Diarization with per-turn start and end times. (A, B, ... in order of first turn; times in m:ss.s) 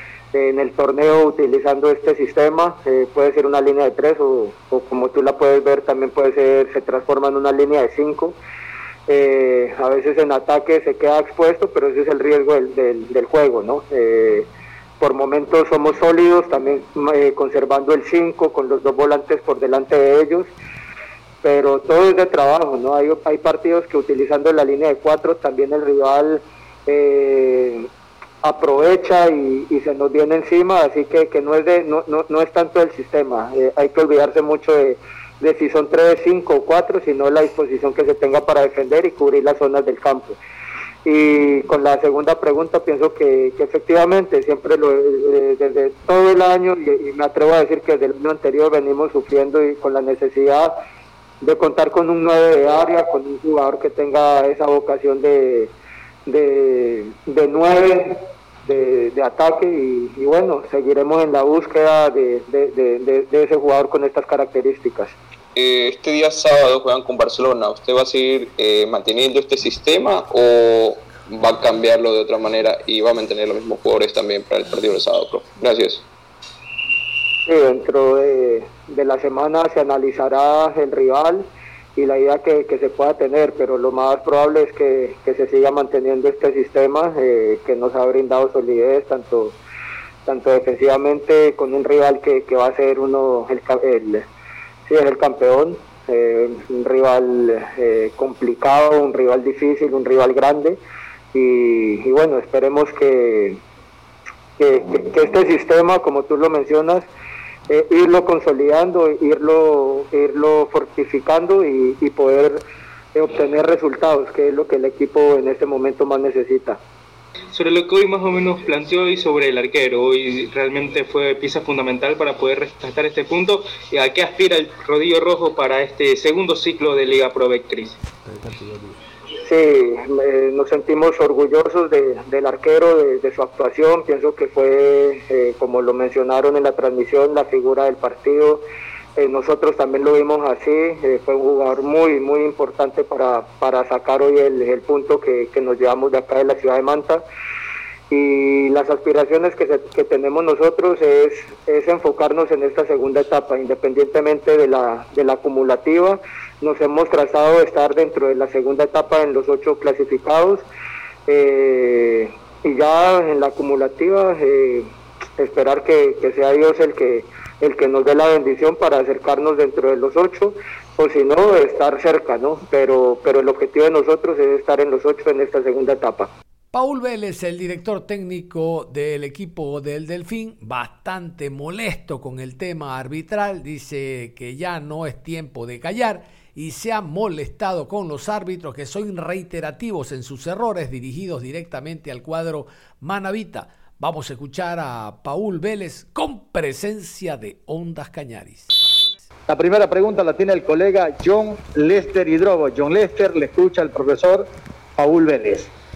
0:00.3-0:08.4 A
0:09.1-0:14.5 A
0:15.0-0:20.5 A
0:21.4-0:27.9 A
0:28.4-0:40.4 A
0:41.0-0:50.7 A
0:51.4-0:55.7 A
0:56.2-1:05.1 A
1:05.5-1:16.0 B
1:17.5-1:29.6 A
1:30.2-1:34.2 A
1:34.9-1:40.8 A
1:41.3-1:43.6 A
1:44.6-1:47.1 A
1:47.7-1:52.6 A
1:53.1-1:56.8 A
1:57.5-2:08.0 C
2:08.3-2:08.9 D
2:09.4-2:18.6 A
2:19.2-2:27.2 A
2:28.1-2:40.6 A
2:41.3-2:56.3 A
2:56.7-3:18.7 D
3:19.5-3:25.7 E